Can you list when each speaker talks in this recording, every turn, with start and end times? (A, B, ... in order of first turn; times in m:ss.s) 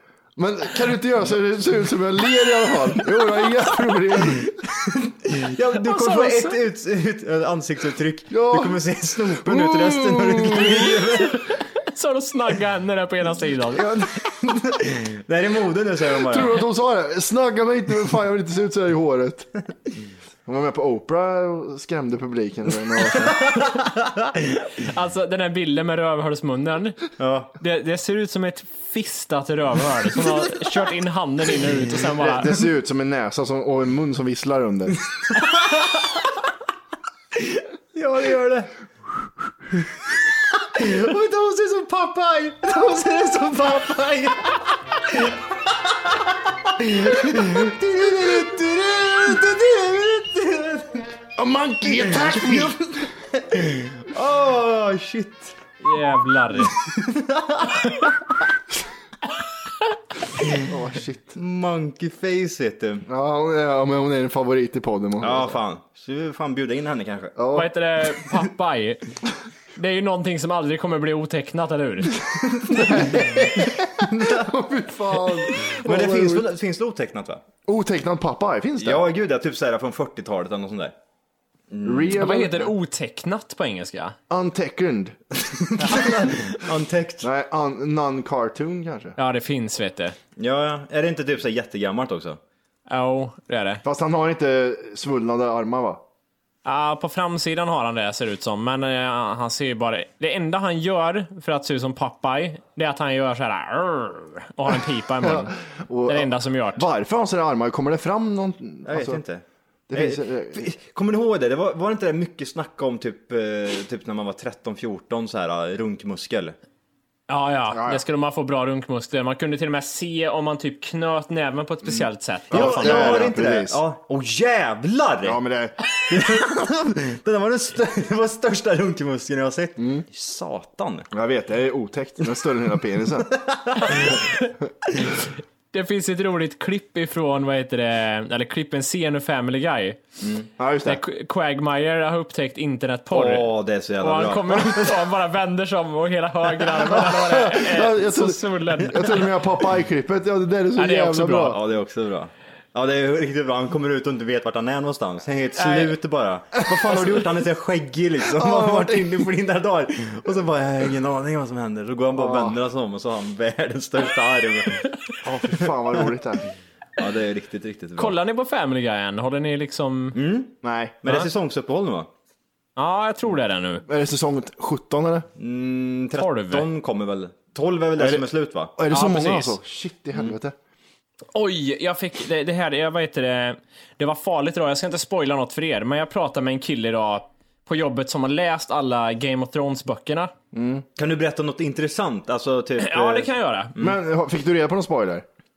0:00.4-0:04.5 A
0:04.2-0:11.5 B
0:05.8-0:06.6 C
0:08.3-0:11.0 A
0:11.9-0:13.9 C
0:13.8-0:16.6 B
0:16.1-0:19.5 A
0:20.4-0:23.4 A
0:23.1-0:23.9 B
0:24.8-0:27.0 C
0:27.2-0:27.5 B
0:27.6-0:32.5 C
0:32.2-0:35.0 A
0:35.4-0:36.2 B
0:37.4-0:38.7 B
0:39.8-0:51.1 B
0:51.4-0:52.8 A
0:51.9-0:55.6 B
0:55.8-0:56.7 C
0:56.7-0:57.9 B
1:00.6-1:01.4 A
1:01.4-1:03.0 B
1:03.1-1:05.6 A
1:05.2-1:07.4 B
1:07.4-1:07.7 A
1:07.5-1:09.0 C
1:09.8-1:12.2 C
1:12.6-1:14.5 B
1:12.7-1:16.4 A
1:15.5-1:17.4 B
1:17.7-1:19.0 A
1:18.8-1:20.9 B
1:21.7-1:22.2 B
1:21.8-1:22.7 A
1:22.2-1:24.2 C
1:24.3-1:25.2 A
1:25.5-1:27.3 B
1:27.2-1:29.2 A
1:29.2-1:30.2 C
1:30.4-1:32.4 B
1:32.9-1:33.8 C
1:33.8-1:36.0 A
1:36.6-1:45.5 C
1:45.2-1:49.2 A
1:46.1-1:46.8 C
1:48.8-1:56.6 B
1:49.9-1:50.7 A
1:57.3-2:03.2 C
1:57.7-1:58.0 A
2:02.5-2:03.8 A
2:02.5-2:05.4 B
2:05.2-2:05.8 A
2:06.1-2:11.1 B
2:09.8-2:10.0 A
2:11.1-2:13.4 A
2:13.4-2:14.1 B
2:15.7-2:20.0 C
2:20.2-2:20.5 B
2:20.6-2:21.0 A
2:20.8-2:23.5 C
2:23.1-2:25.0 B
2:24.0-2:29.2 C
2:26.8-2:31.6 A
2:30.8-2:31.6 C
2:31.5-2:44.8 B
2:35.6-2:35.9 C
2:36.7-2:37.0 A
2:38.2-2:39.3 A
2:42.1-2:42.6 A
2:45.2-2:46.5 A
2:47.0-2:48.1 B
2:48.0-2:50.2 C
2:50.1-2:52.1 B
2:50.6-2:51.0 A
2:52.8-2:53.8 C
2:53.9-2:55.3 A
2:55.4-2:58.7 B
2:56.1-2:56.6 C
2:58.0-3:00.5 A
2:58.9-2:59.5 C
3:01.3-3:10.3 C
3:10.5-3:10.8 A
3:11.0-3:14.0 B
3:12.8-3:13.7 C
3:13.8-3:15.2 A